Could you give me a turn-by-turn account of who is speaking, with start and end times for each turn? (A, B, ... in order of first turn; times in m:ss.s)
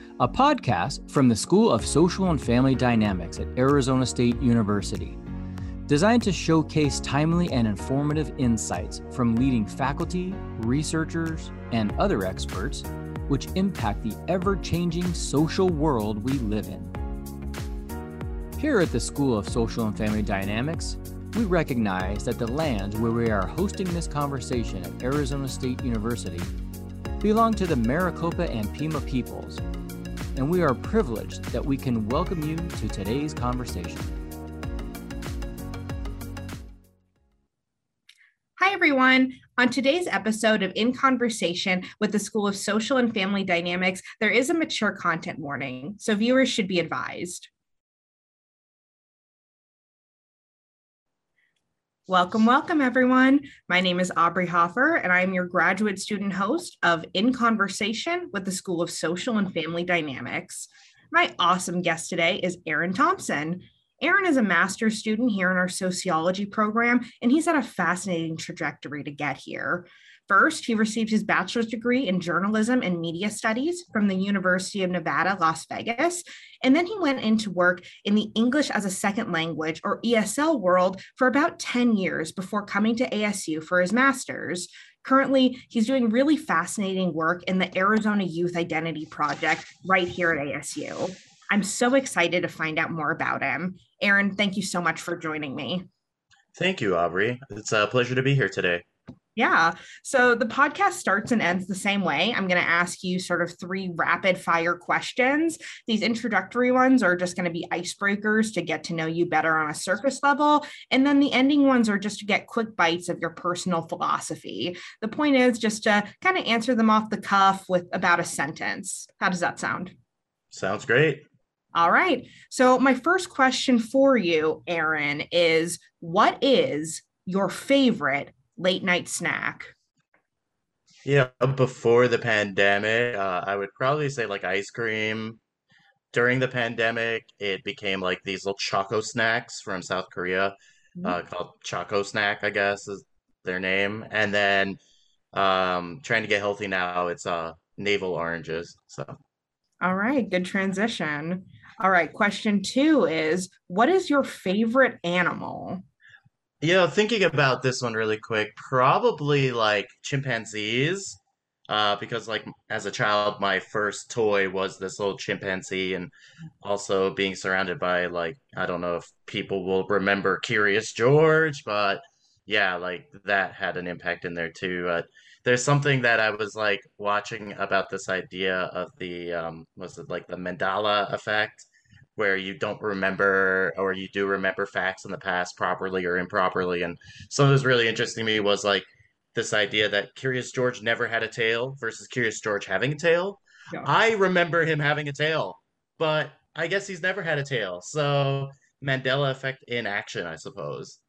0:00.2-0:05.2 A
0:05.9-0:16.9 A
0:18.6-0:26.5 A
0:27.2-0:29.6 A
0:30.4-0:34.2 A
0:38.6-0:47.5 B
0:52.1-1:35.9 B
1:36.6-1:38.8 C
1:39.4-2:00.0 B
2:00.5-2:01.2 C
2:01.8-2:09.7 B
2:11.0-2:15.4 C
2:16.1-2:24.8 C
2:25.3-2:29.2 C
2:29.8-2:35.8 B
2:36.6-2:46.1 C
2:46.6-3:21.0 C